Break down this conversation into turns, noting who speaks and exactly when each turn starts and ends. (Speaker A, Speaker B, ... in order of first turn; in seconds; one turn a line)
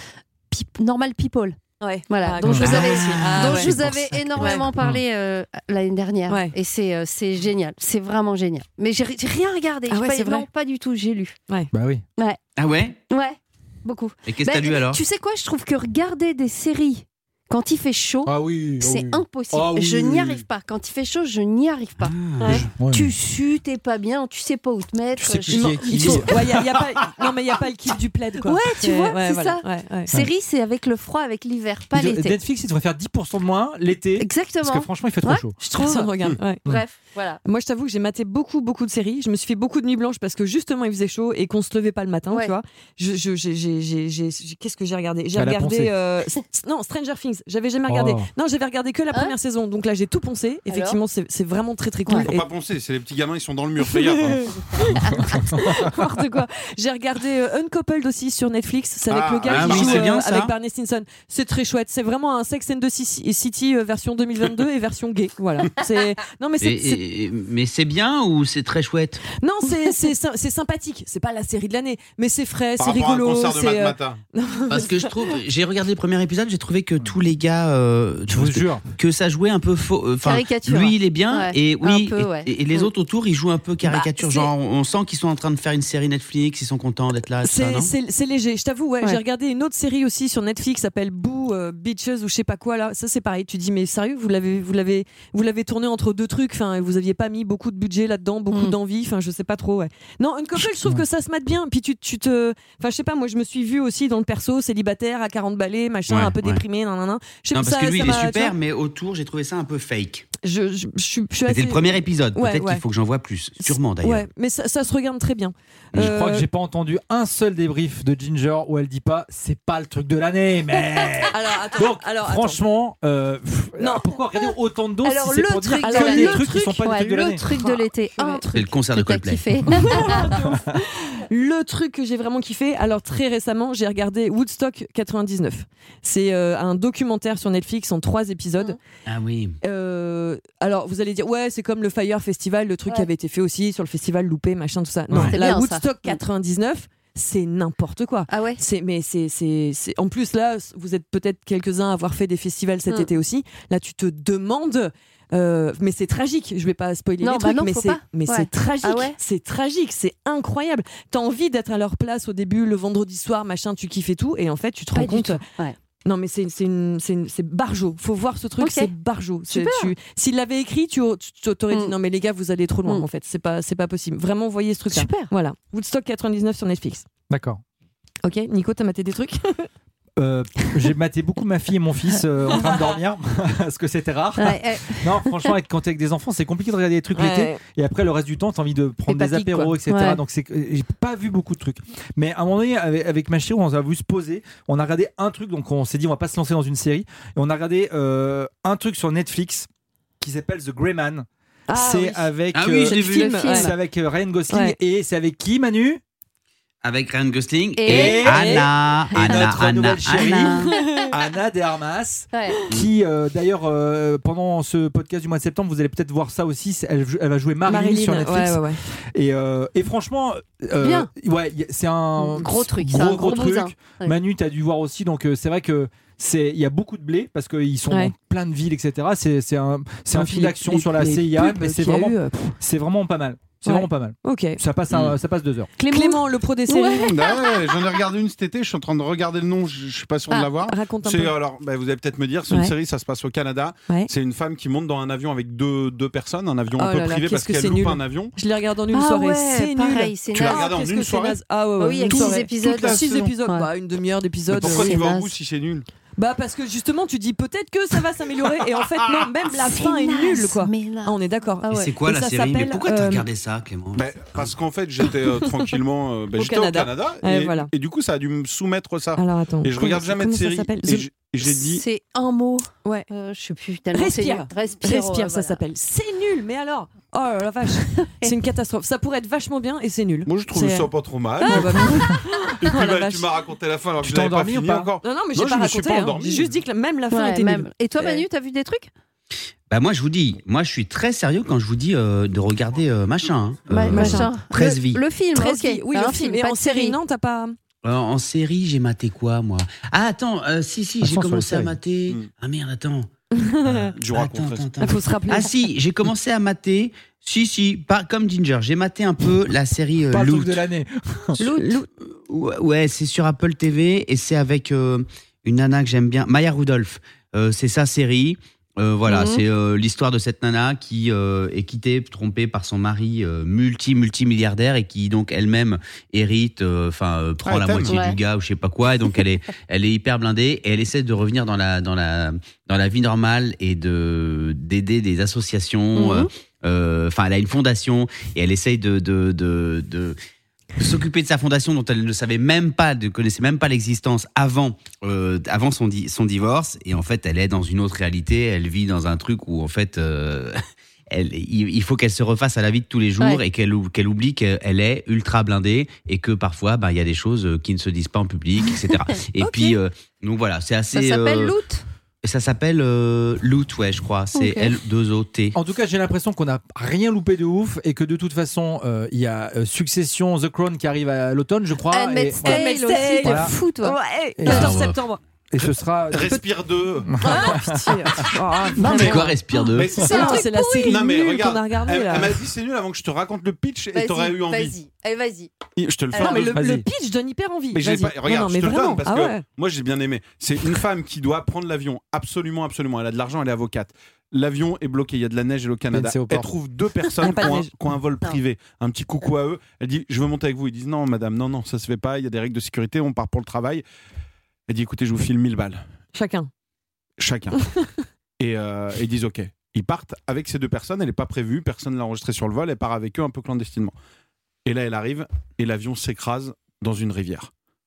Speaker A: 0.5-11.4
Speaker B: 1.8-3.8
Speaker C: 2.6-4.6
Speaker B: 4.4-4.7
Speaker B: 6.3-6.5
Speaker B: 9.9-10.5
Speaker D: 11.7-12.0
Speaker C: 12.6-13.0
Speaker A: 13.1-26.4
Speaker C: 14.3-15.0
Speaker D: 18.3-20.4
Speaker C: 22.0-22.7
Speaker D: 22.8-23.1
Speaker D: 25.2-26.5
Speaker B: 25.5-30.1
Speaker A: 28.4-32.4
Speaker D: 31.9-35.6
Speaker A: 34.2-37.4
Speaker B: 35.8-36.6
Speaker B: 37.5-52.5
Speaker D: 45.4-45.9
Speaker D: 47.9-48.3
Speaker A: 50.7-51.0
Speaker E: 52.2-54.6
Speaker B: 54.2-67.0
Speaker D: 55.1-55.7
Speaker E: 59.1-60.1
Speaker C: 59.5-60.5
Speaker C: 66.6-69.2
Speaker B: 69.4-75.1
Speaker E: 72.8-74.2
Speaker C: 74.7-87.9
Speaker D: 78.3-78.8
Speaker A: 80.2-82.9
Speaker A: 83.8-84.5
Speaker B: 87.4-108.5
Speaker C: 106.1-106.6
Speaker C: 107.5-110.3
Speaker B: 110.4-112.8
Speaker C: 111.5-114.3
Speaker B: 113.6-116.5
Speaker D: 116.0-127.4
Speaker B: 121.3-122.6
Speaker B: 123.8-124.1
Speaker A: 125.0-130.4
Speaker B: 125.8-126.8
Speaker B: 127.5-128.4
Speaker C: 128.5-129.5
Speaker B: 129.8-138.8
Speaker C: 139.1-139.6
Speaker B: 139.6-165.4
Speaker A: 145.2-146.2
Speaker A: 148.3-148.6
Speaker A: 157.2-159.2
Speaker A: 164.9-165.8
Speaker B: 166.1-177.1
Speaker A: 168.6-168.9
Speaker A: 169.5-169.9
Speaker A: 174.9-175.3
Speaker D: 177.3-177.6
Speaker B: 178.2-179.7
Speaker D: 180.2-199.7
Speaker A: 184.4-185.1
Speaker B: 187.2-187.6
Speaker A: 189.1-190.2
Speaker D: 200.2-206.0
Speaker B: 201.7-202.3
Speaker C: 202.5-203.5
Speaker B: 202.9-203.7
Speaker A: 202.9-203.7
Speaker B: 204.5-204.8
Speaker C: 206.8-210.8
Speaker A: 207.8-208.6
Speaker D: 207.9-218.6
Speaker B: 208.3-208.6
Speaker A: 209.2-209.5
Speaker A: 210.2-211.1
Speaker A: 212.3-212.6
Speaker B: 217.7-218.8
Speaker D: 219.2-235.7
Speaker A: 220.8-221.1
Speaker A: 222.2-224.2
Speaker B: 230.1-232.6
Speaker B: 233.7-234.6
Speaker A: 235.8-237.9
Speaker B: 235.9-237.2
Speaker E: 237.0-248.3
Speaker B: 240.7-241.3
Speaker B: 242.5-242.7
Speaker B: 246.8-255.0
Speaker A: 248.9-250.7
Speaker E: 250.3-251.4
Speaker A: 251.8-253.7
Speaker E: 252.1-253.3
Speaker E: 254.5-255.9
Speaker A: 254.6-255.3
Speaker B: 256.2-263.3
Speaker A: 259.6-261.9
Speaker C: 261.7-264.5
Speaker E: 264.0-271.8
Speaker B: 266.4-267.7
Speaker B: 269.2-271.1
Speaker A: 271.4-275.6
Speaker B: 273.9-283.3
Speaker E: 280.3-286.5
Speaker A: 281.5-282.0
Speaker D: 284.0-284.9
Speaker B: 285.0-288.2
Speaker A: 287.1-288.9
Speaker C: 289.7-295.0
Speaker A: 293.7-297.0
Speaker B: 293.9-294.4
Speaker B: 295.3-297.6
Speaker C: 297.8-303.1
Speaker D: 301.0-301.8
Speaker B: 303.3-303.9
Speaker E: 303.7-304.7
Speaker C: 304.1-310.6
Speaker B: 304.8-305.5
Speaker D: 310.1-311.4
Speaker B: 311.4-311.9
Speaker C: 311.6-340.2
Speaker A: 319.1-319.4
Speaker E: 327.4-327.9
Speaker A: 327.9-328.2
Speaker A: 336.0-336.3
Speaker C: 340.8-350.6
Speaker C: 351.1-361.6
Speaker B: 359.4-359.8
Speaker A: 360.9-361.8
Speaker C: 362.2-365.6
Speaker A: 364.4-364.7
Speaker D: 365.6-373.5
Speaker A: 371.9-374.0
Speaker B: 372.4-375.2
Speaker D: 374.4-374.9
Speaker C: 374.5-375.0
Speaker D: 375.5-376.4
Speaker E: 376.1-377.2
Speaker D: 377.1-377.8
Speaker B: 377.2-379.3
Speaker A: 377.2-377.6
Speaker D: 378.8-379.2
Speaker C: 378.9-379.9
Speaker A: 379.5-381.0
Speaker E: 379.7-384.8
Speaker B: 380.0-382.4
Speaker A: 383.9-385.5
Speaker E: 385.8-386.6
Speaker A: 386.1-386.4
Speaker B: 386.1-389.4
Speaker D: 386.5-386.9
Speaker E: 387.7-403.8
Speaker D: 395.9-396.5
Speaker B: 397.2-397.7
Speaker E: 404.7-405.8
Speaker B: 406.1-406.5
Speaker E: 407.2-407.6
Speaker B: 407.6-407.9
Speaker E: 408.4-413.9
Speaker E: 414.6-417.5